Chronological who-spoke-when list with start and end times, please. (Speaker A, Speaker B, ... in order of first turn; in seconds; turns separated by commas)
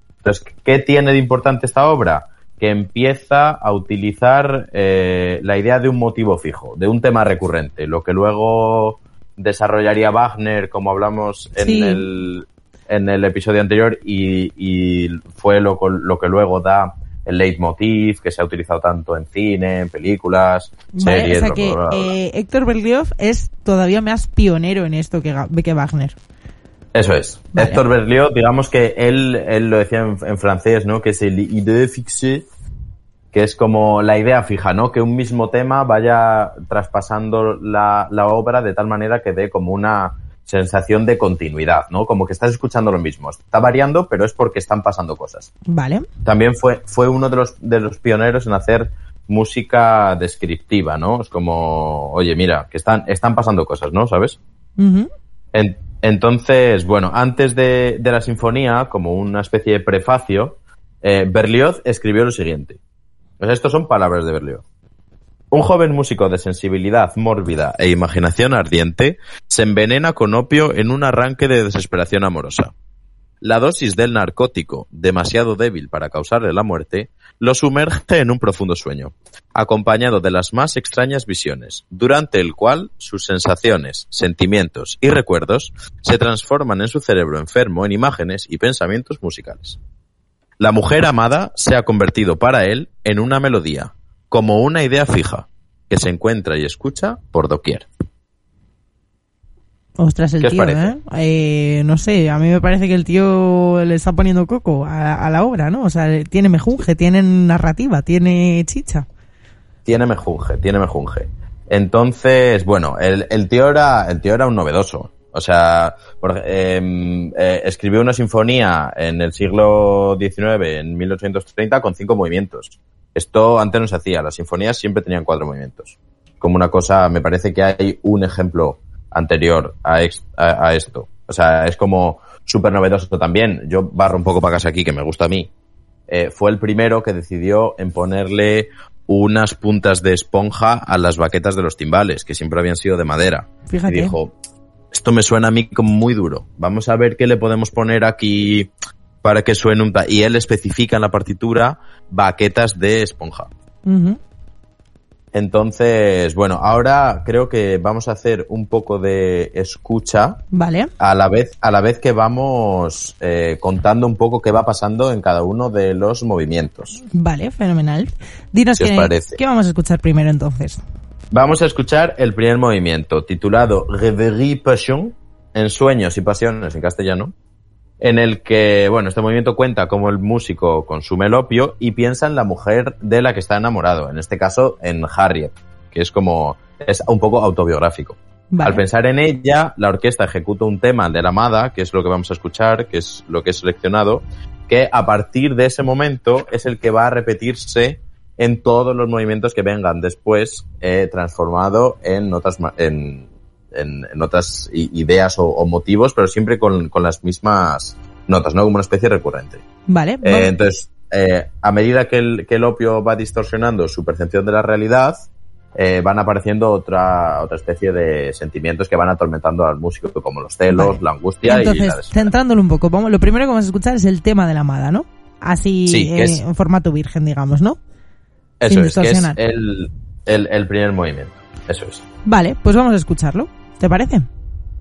Speaker A: 0.2-22.1, Speaker B: 11.6-12.0, Speaker B: 20.9-26.2, Speaker A: 26.9-32.5, Speaker B: 27.5-27.8, Speaker A: 33.3-45.5, Speaker B: 45.7-46.1, Speaker A: 46.2-54.4, Speaker B: 54.8-55.1, Speaker A: 55.5-62.8, Speaker A: 63.4-64.6, Speaker A: 65.5-72.7, Speaker A: 73.4-89.8, Speaker A: 90.6-97.9, Speaker B: 100.0-109.1, Speaker A: 100.4-100.9, Speaker A: 109.9-135.5, Speaker A: 136.1-144.3, Speaker B: 143.7-144.2, Speaker A: 144.9-148.7, Speaker A: 149.2-153.5, Speaker B: 153.9-154.2, Speaker A: 155.3-160.4, Speaker B: 160.5-160.9, Speaker A: 161.0-167.0, Speaker B: 167.1-170.8, Speaker A: 168.8-169.4, Speaker A: 171.3-177.3, Speaker A: 178.0-209.6, Speaker B: 188.5-188.8, Speaker B: 209.9-210.5, Speaker A: 210.2-222.3, Speaker B: 220.7-227.8, Speaker A: 225.9-226.4, Speaker A: 228.6-232.0, Speaker B: 228.7-229.4, Speaker B: 232.3-234.3